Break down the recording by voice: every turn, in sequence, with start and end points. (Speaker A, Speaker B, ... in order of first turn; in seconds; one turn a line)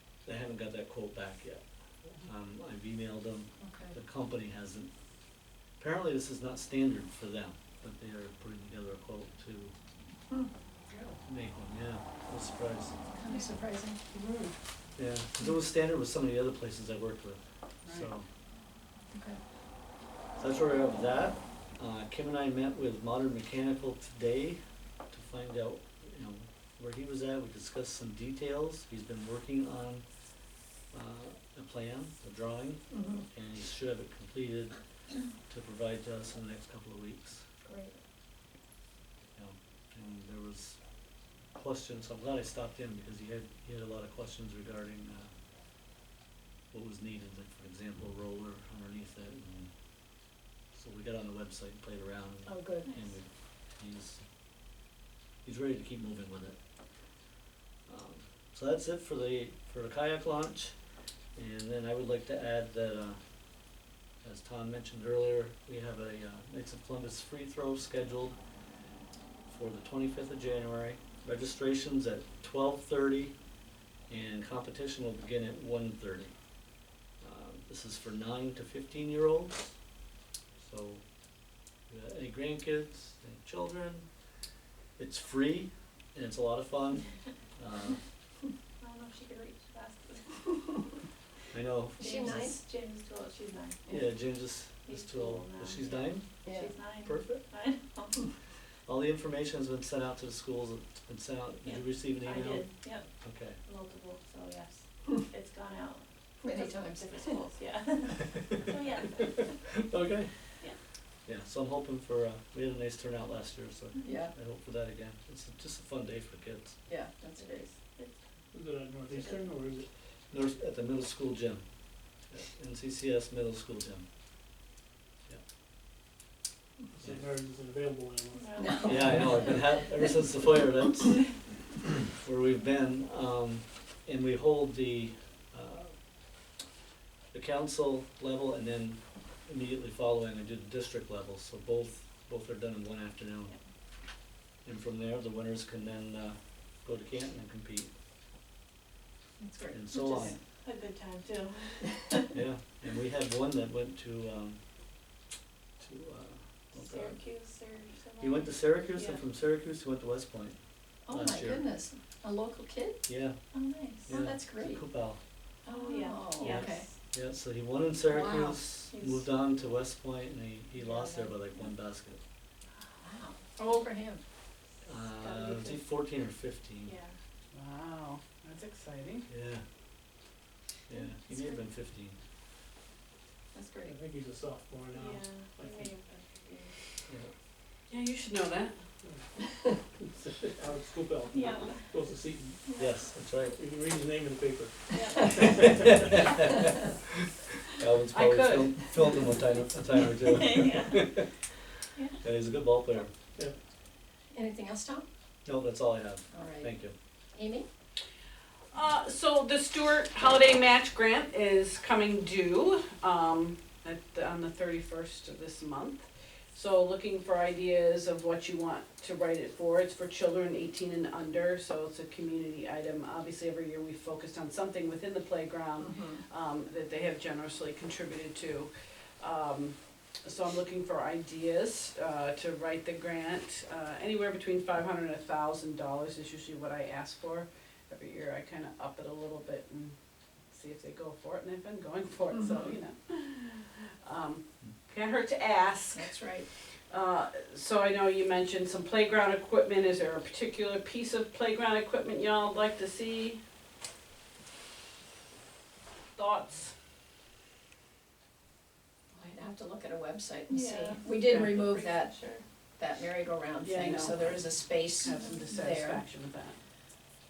Speaker A: 0.2-1.6
Speaker A: 2.2-4.9
Speaker B: 3.6-4.0
Speaker A: 5.8-9.7
Speaker C: 10.9-11.2
Speaker A: 11.2-12.9
Speaker B: 13.1-14.0
Speaker C: 14.1-14.5
Speaker A: 15.0-18.3
Speaker C: 17.8-18.1
Speaker B: 19.1-19.4
Speaker A: 20.4-30.0
Speaker A: 30.9-34.7
Speaker B: 32.9-33.2
Speaker A: 35.5-37.5
Speaker B: 37.6-37.9
Speaker A: 39.4-40.8
Speaker A: 41.5-45.3
Speaker A: 46.7-49.7
Speaker A: 50.7-54.2
Speaker B: 52.5-52.9
Speaker A: 55.4-56.6
Speaker A: 57.9-60.7
Speaker A: 61.4-63.2
Speaker A: 64.2-68.4
Speaker A: 69.5-73.3
Speaker A: 74.1-76.3
Speaker A: 77.2-79.7
Speaker A: 80.6-81.0
Speaker A: 81.9-84.1
Speaker A: 85.0-88.0
Speaker D: 88.8-90.4
Speaker A: 91.5-92.5
Speaker B: 92.0-92.6
Speaker D: 92.0-93.9
Speaker A: 93.9-96.3
Speaker D: 94.8-98.2
Speaker B: 96.4-96.7
Speaker A: 97.0-97.4
Speaker A: 98.9-102.7
Speaker D: 101.6-103.0
Speaker A: 103.2-103.6
Speaker D: 103.6-109.6
Speaker B: 106.4-107.4
Speaker A: 108.3-110.3
Speaker A: 111.2-116.8
Speaker B: 114.0-114.3
Speaker B: 116.9-117.7
Speaker D: 117.4-118.2
Speaker E: 118.5-119.9
Speaker D: 119.1-119.4
Speaker A: 120.3-121.6
Speaker A: 122.3-124.1
Speaker E: 126.9-129.2
Speaker D: 128.3-129.3
Speaker B: 128.6-129.7
Speaker A: 128.8-131.3
Speaker A: 132.1-135.9
Speaker A: 137.3-143.5
Speaker A: 144.7-147.9
Speaker B: 149.4-150.4
Speaker A: 149.7-150.4
Speaker D: 150.6-152.2
Speaker A: 152.3-154.6
Speaker A: 155.8-157.2
Speaker D: 156.8-159.2
Speaker A: 158.2-160.6
Speaker B: 161.1-163.1
Speaker A: 161.1-161.7
Speaker A: 163.1-163.4
Speaker D: 163.5-164.1
Speaker A: 164.0-165.2
Speaker B: 164.1-164.8
Speaker B: 165.7-166.9
Speaker D: 165.7-166.9
Speaker A: 166.4-172.2
Speaker B: 168.0-168.6
Speaker D: 168.9-169.2
Speaker B: 173.0-174.2
Speaker A: 174.8-177.0
Speaker D: 175.2-175.7
Speaker D: 176.8-177.1
Speaker C: 177.5-179.2
Speaker A: 179.3-179.6
Speaker A: 180.9-182.2
Speaker B: 183.5-184.0
Speaker E: 183.9-185.9
Speaker D: 184.9-186.8
Speaker C: 187.9-188.8
Speaker E: 190.0-192.7
Speaker D: 191.3-191.9
Speaker A: 192.8-193.6
Speaker E: 193.5-195.9
Speaker D: 194.9-195.3
Speaker A: 195.3-201.2
Speaker C: 198.1-198.8
Speaker D: 200.3-201.1
Speaker A: 202.2-203.1
Speaker B: 204.3-205.1
Speaker A: 205.4-206.9
Speaker B: 206.3-206.7
Speaker B: 207.3-207.7
Speaker C: 208.7-240.0
Speaker B: 225.8-226.2
Speaker C: 240.5-246.1
Speaker B: 242.3-242.8
Speaker B: 245.9-246.5
Speaker C: 246.9-253.4
Speaker C: 256.2-256.7
Speaker B: 259.1-262.1
Speaker D: 260.5-262.4
Speaker C: 261.2-261.6
Speaker B: 262.8-266.0
Speaker C: 263.6-266.6